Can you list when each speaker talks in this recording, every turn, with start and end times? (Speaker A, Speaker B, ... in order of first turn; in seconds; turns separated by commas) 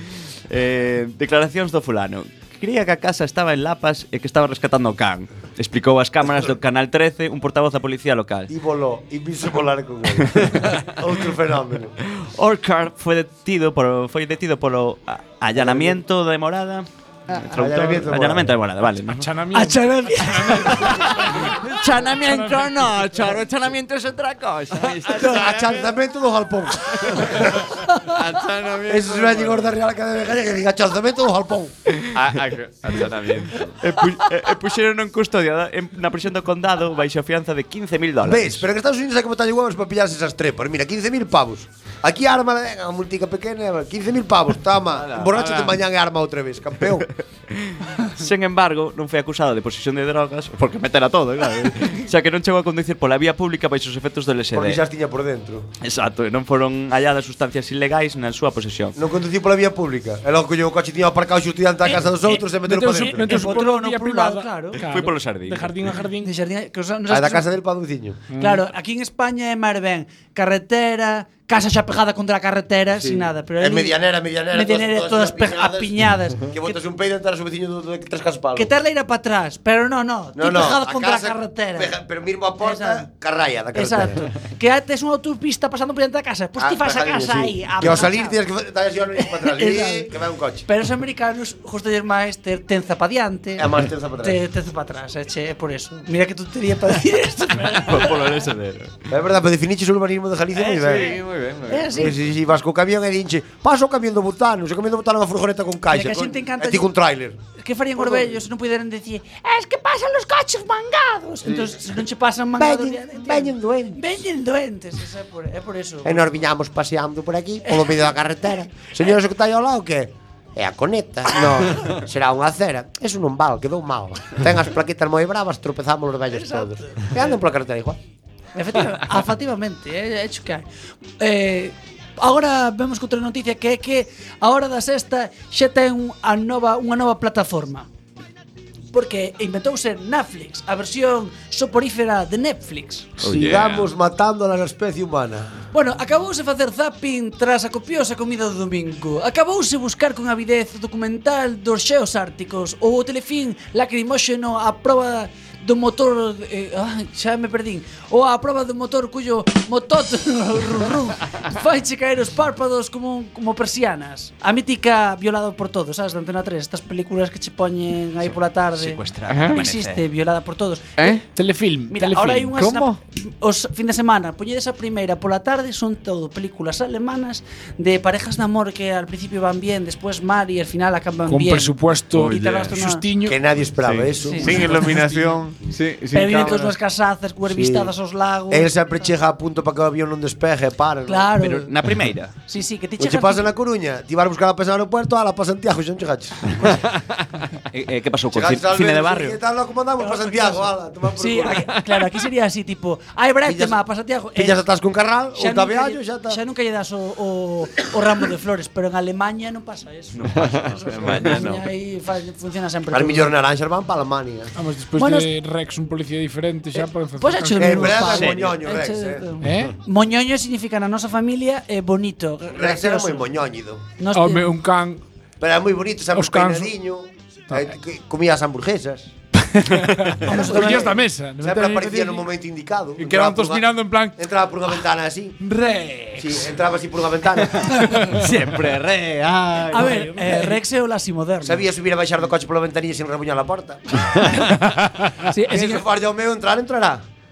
Speaker A: 0.5-8.5, Speaker B: 8.5-12.0, Speaker A: 10.3-10.8, Speaker A: 12.1-19.3, Speaker B: 15.6-16.0, Speaker B: 17.5-18.5, Speaker C: 19.2-22.9, Speaker D: 19.5-21.4, Speaker A: 20.8-25.3, Speaker E: 24.8-25.9, Speaker B: 25.1-27.7, Speaker E: 27.1-29.8, Speaker B: 28.9-31.7, Speaker E: 32.1-33.8, Speaker A: 33.8-38.7, Speaker B: 38.2-47.1, Speaker A: 44.9-45.8, Speaker A: 47.0-54.8, Speaker B: 54.5-55.7, Speaker A: 55.8-59.0, Speaker B: 59.0-63.5, Speaker D: 61.9-64.8, Speaker C: 62.6-66.3, Speaker A: 64.8-65.8, Speaker D: 66.2-67.5, Speaker B: 67.1-68.2, Speaker C: 68.3-68.7, Speaker D: 68.3-76.8, Speaker B: 72.9-78.7, Speaker D: 78.6-81.9, Speaker B: 80.3-84.3, Speaker D: 82.6-83.1, Speaker D: 83.7-88.4, Speaker B: 86.6-90.7, Speaker D: 89.2-90.1, Speaker D: 90.7-98.3, Speaker B: 93.6-94.4, Speaker A: 97.7-99.0, Speaker B: 99.1-101.2, Speaker D: 100.6-102.2, Speaker E: 100.7-102.0, Speaker B: 101.9-107.4, Speaker D: 105.9-106.9, Speaker D: 107.6-116.2, Speaker B: 108.0-108.3, Speaker B: 111.4-111.8, Speaker B: 112.6-114.0, Speaker B: 116.0-128.0, Speaker D: 126.3-127.1, Speaker D: 128.6-130.6, Speaker D: 131.2-137.9, Speaker D: 138.9-143.2, Speaker E: 143.2-143.9, Speaker B: 143.2-145.6, Speaker D: 145.7-171.0, Speaker A: 168.3-170.0, Speaker E: 169.3-169.6, Speaker E: 171.0-171.2, Speaker C: 171.3-172.6, Speaker D: 171.9-183.1, Speaker E: 172.6-173.0, Speaker C: 181.3-183.4, Speaker E: 182.1-182.7, Speaker B: 183.2-184.8, Speaker E: 183.8-186.8, Speaker D: 184.3-184.5, Speaker C: 184.3-185.4, Speaker D: 186.1-188.8, Speaker B: 187.5-187.9, Speaker B: 188.5-191.4, Speaker D: 191.1-191.7, Speaker A: 191.4-192.3, Speaker D: 192.5-193.5, Speaker B: 193.0-196.8, Speaker A: 197.7-199.4, Speaker B: 198.3-201.8, Speaker D: 200.0-204.6, Speaker B: 203.4-203.8, Speaker B: 204.3-206.4, Speaker D: 205.3-213.3, Speaker A: 210.2-211.6, Speaker E: 210.4-211.4, Speaker B: 212.9-214.5, Speaker C: 214.6-218.0, Speaker D: 215.0-215.3, Speaker D: 217.2-223.3, Speaker B: 217.6-219.3, Speaker A: 218.1-218.5, Speaker C: 219.4-219.7, Speaker B: 222.5-223.9, Speaker D: 224.0-224.5, Speaker C: 224.1-225.0, Speaker B: 225.4-229.1, Speaker C: 226.1-226.7, Speaker C: 229.4-232.2, Speaker D: 230.2-230.9, Speaker B: 230.3-235.4, Speaker C: 233.0-234.2, Speaker C: 235.4-236.3, Speaker B: 236.2-237.8, Speaker C: 237.7-238.3, Speaker A: 238.1-240.2, Speaker D: 239.7-241.6, Speaker C: 239.7-240.6, Speaker B: 241.4-244.1, Speaker C: 244.4-245.2, Speaker D: 245.3-245.9, Speaker B: 245.4-247.1